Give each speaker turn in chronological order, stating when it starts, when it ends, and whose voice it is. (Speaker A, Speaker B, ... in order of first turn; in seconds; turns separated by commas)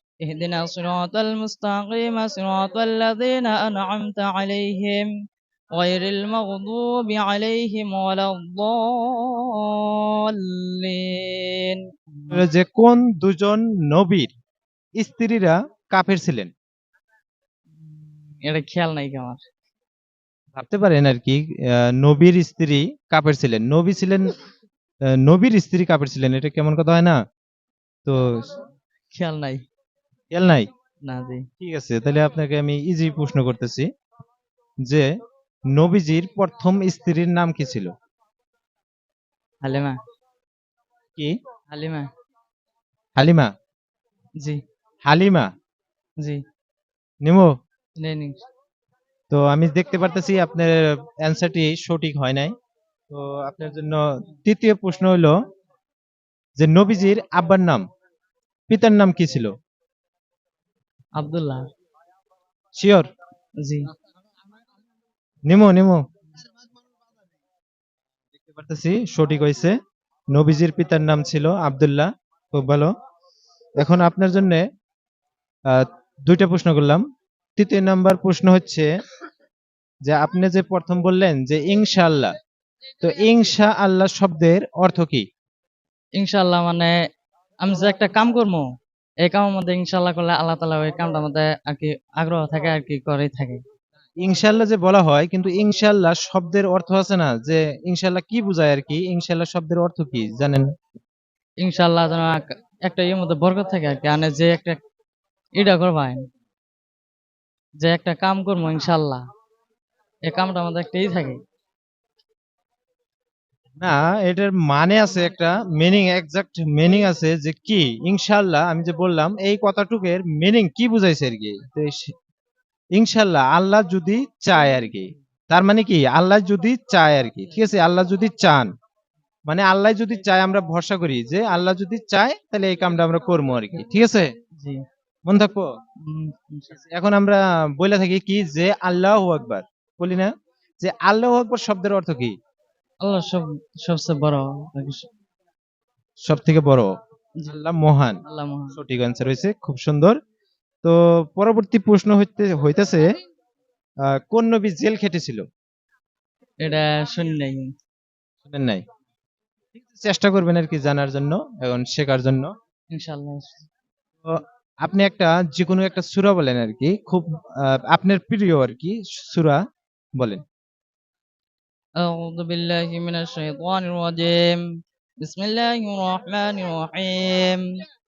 Speaker A: 0.2-5.1, Speaker A: 5.8-12.5, Speaker B: 12.3-14.3, Speaker B: 15.0-16.5, Speaker A: 18.4-19.4, Speaker B: 20.6-24.3, Speaker B: 25.1-27.2, Speaker B: 28.1-28.6, Speaker A: 29.1-29.6, Speaker B: 30.3-30.7, Speaker A: 31.1-31.4, Speaker B: 31.6-33.9, Speaker B: 34.8-35.1, Speaker B: 35.7-37.9, Speaker A: 39.6-40.0, Speaker A: 41.7-42.1, Speaker B: 43.2-43.5, Speaker B: 45.1-45.5, Speaker B: 47.2-47.5, Speaker A: 48.0-48.4, Speaker B: 49.3-52.5, Speaker B: 53.1-55.4, Speaker B: 56.6-57.8, Speaker B: 58.7-59.5, Speaker A: 61.2-61.7, Speaker B: 62.8-63.1, Speaker A: 63.6-63.9, Speaker B: 65.5-66.0, Speaker B: 68.5-69.8, Speaker B: 70.3-72.9, Speaker B: 73.8-74.7, Speaker B: 75.7-77.0, Speaker B: 77.6-78.9, Speaker B: 80.1-82.3, Speaker B: 83.0-85.3, Speaker A: 86.2-86.9, Speaker A: 87.6-88.7, Speaker A: 89.2-93.6, Speaker B: 94.2-100.7, Speaker A: 101.6-104.8, Speaker A: 105.6-106.2, Speaker A: 107.8-109.2, Speaker A: 110.2-111.4, Speaker B: 113.8-122.1, Speaker B: 123.0-128.7, Speaker B: 129.5-134.3, Speaker B: 135.3-135.7, Speaker A: 136.0-136.8, Speaker B: 136.8-142.3, Speaker A: 143.0-145.1, Speaker B: 146.2-146.9, Speaker B: 147.5-148.2, Speaker A: 148.3-148.8, Speaker B: 148.8-150.2, Speaker B: 150.8-153.1, Speaker B: 154.1-155.4, Speaker A: 156.6-157.7, Speaker B: 158.5-158.8, Speaker B: 159.9-162.5, Speaker A: 162.9-163.7, Speaker B: 164.2-169.6, Speaker A: 172.0-174.6, Speaker A: 175.2-177.6